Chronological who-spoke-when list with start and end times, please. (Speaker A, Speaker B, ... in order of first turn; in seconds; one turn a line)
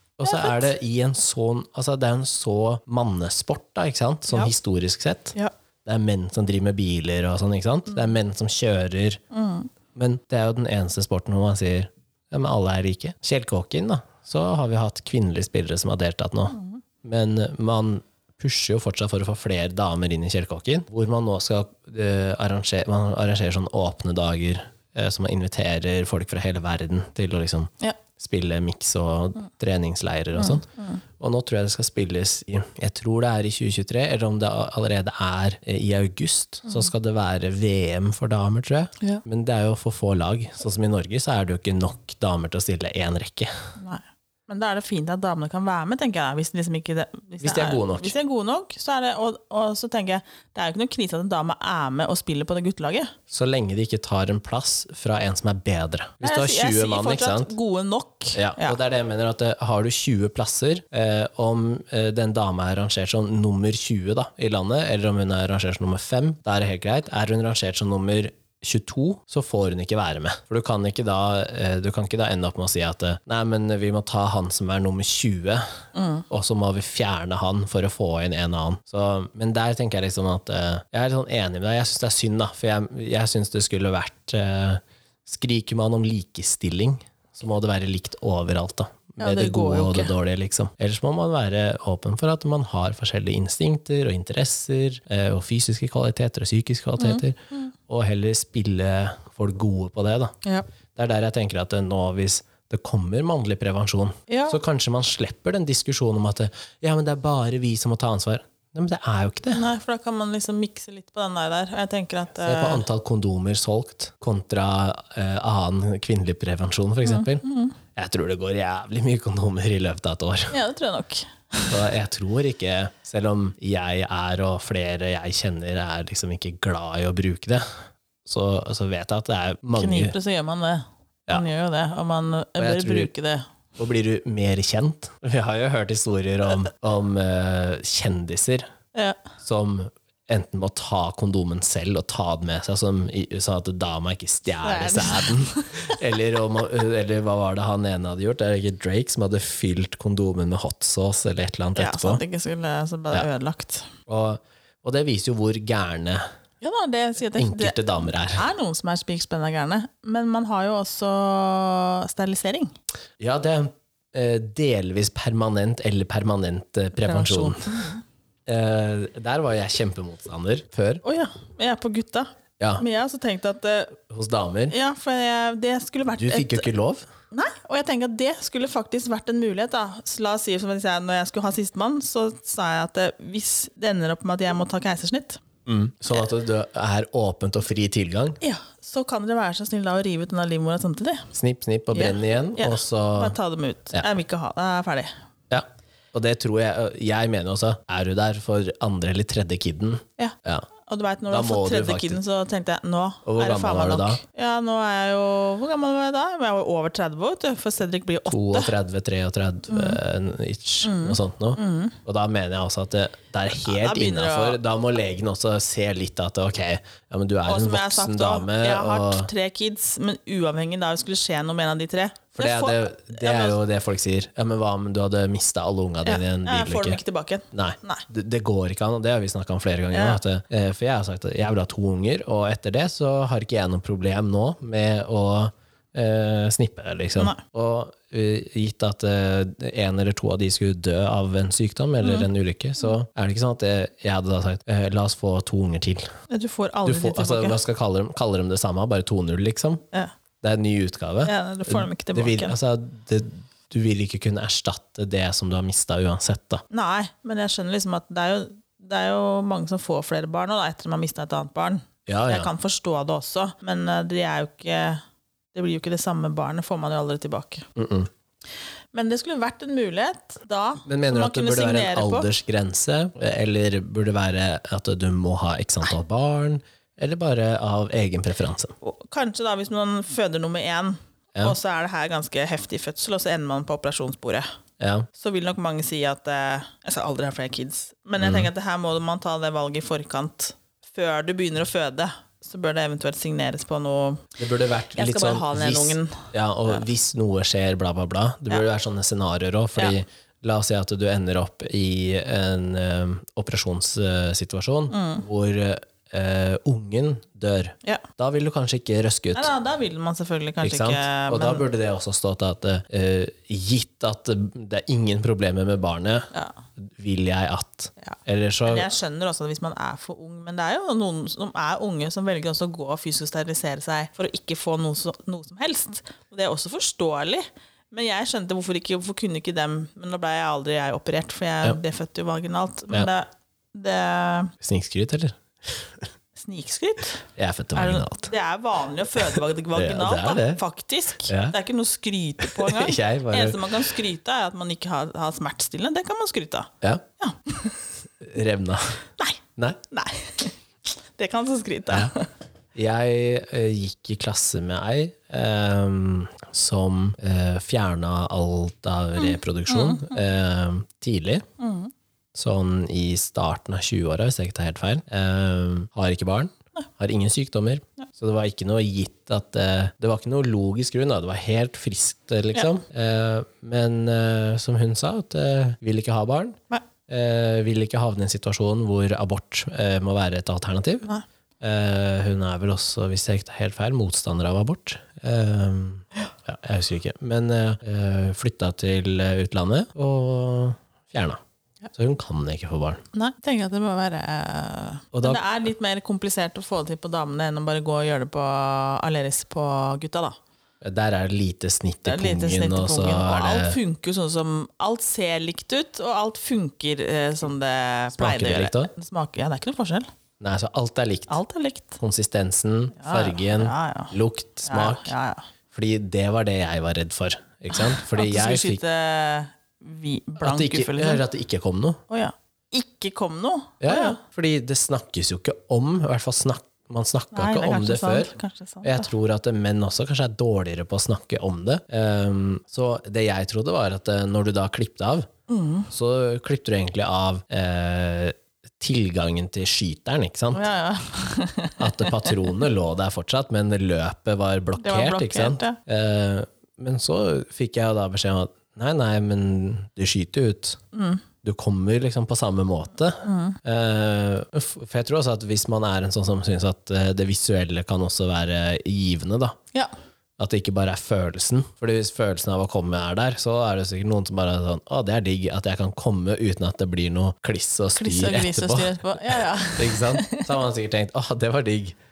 Speaker A: 0.2-9.2
Speaker B: 0.2-0.7
Speaker B: 9.3-9.7
Speaker A: 9.9-30.6
Speaker B: 30.4-31.0
Speaker A: 31.2-43.5
Speaker B: 43.8-53.1
Speaker A: 47.4-48.1
Speaker A: 53.3-57.5
Speaker B: 56.2-58.8
Speaker A: 58.3-75.7
Speaker B: 75.9-76.2
Speaker A: 76.3-100.3
Speaker B: 89.2-90.1
Speaker B: 97.0-97.7
Speaker A: 100.9-109.6
Speaker B: 104.3-104.6
Speaker B: 109.5-112.8
Speaker A: 112.4-117.4
Speaker B: 117.0-117.7
Speaker A: 117.9-120.5
Speaker B: 120.5-121.8
Speaker A: 121.7-127.6
Speaker A: 128.2-130.1
Speaker B: 129.8-133.5
Speaker A: 132.6-133.1
Speaker A: 133.8-138.7
Speaker B: 138.9-139.2
Speaker A: 139.4-152.2
Speaker B: 144.6-146.0
Speaker B: 151.8-153.9
Speaker A: 154.1-156.2
Speaker B: 156.6-162.7
Speaker A: 157.3-158.4
Speaker A: 163.2-167.7
Speaker B: 167.0-168.0
Speaker A: 168.5-171.0
Speaker B: 171.0-174.0
Speaker A: 174.1-174.7
Speaker B: 174.7-176.7
Speaker A: 176.2-177.1
Speaker B: 177.3-185.4
Speaker A: 185.7-188.4
Speaker B: 188.4-191.3
Speaker A: 191.3-193.3
Speaker B: 191.9-195.1
Speaker A: 195.5-200.7
Speaker B: 200.2-208.7
Speaker A: 201.3-202.2
Speaker A: 203.2-204.2
Speaker A: 208.3-219.3
Speaker B: 209.7-210.0
Speaker B: 210.8-211.9
Speaker B: 213.5-214.6
Speaker B: 217.4-223.6
Speaker A: 222.3-227.0
Speaker B: 226.0-228.0
Speaker A: 227.5-246.1
Speaker B: 229.9-230.2
Speaker B: 237.2-237.4
Speaker B: 242.0-242.3
Speaker B: 246.3-247.6
Speaker A: 246.8-249.8
Speaker A: 250.4-256.6
Speaker B: 251.2-252.6
Speaker B: 256.7-265.0
Speaker A: 262.1-262.5
Speaker B: 265.5-267.7
Speaker A: 267.8-268.1
Speaker B: 268.9-272.3
Speaker A: 270.9-278.7
Speaker B: 278.8-284.5
Speaker A: 284.8-285.1
Speaker B: 285.1-294.2
Speaker A: 288.2-288.5
Speaker A: 294.4-309.5
Speaker B: 294.9-296.8
Speaker B: 304.9-305.2
Speaker B: 309.3-311.6
Speaker A: 310.6-318.9
Speaker B: 318.0-334.5
Speaker A: 334.6-336.1
Speaker B: 336.4-337.2
Speaker A: 337.4-338.3
Speaker B: 337.7-347.7
Speaker A: 339.3-340.6
Speaker A: 341.3-341.5
Speaker A: 342.4-343.9
Speaker A: 348.2-349.0
Speaker B: 349.2-350.5
Speaker B: 351.1-352.3
Speaker A: 352.7-361.4
Speaker B: 359.2-360.2
Speaker B: 361.6-361.9
Speaker A: 362.3-381.1
Speaker A: 381.6-391.4
Speaker A: 391.9-393.0
Speaker B: 393.1-400.4
Speaker A: 395.1-395.4
Speaker A: 400.8-403.8
Speaker B: 402.1-410.1
Speaker A: 408.1-408.9
Speaker A: 410.4-411.4
Speaker B: 411.3-412.0
Speaker A: 412.0-415.1
Speaker B: 413.0-414.1
Speaker B: 414.6-415.4
Speaker A: 415.7-418.8
Speaker B: 417.7-421.2
Speaker A: 420.4-422.0
Speaker B: 422.1-424.2
Speaker A: 423.8-428.3
Speaker B: 427.3-429.1
Speaker A: 428.8-435.3
Speaker B: 435.5-435.9
Speaker A: 435.9-440.6
Speaker B: 440.5-442.5
Speaker A: 441.8-450.8
Speaker B: 444.8-445.8
Speaker B: 450.9-451.2
Speaker A: 451.4-459.6
Speaker B: 453.2-453.6
Speaker A: 460.4-472.0
Speaker B: 468.0-470.5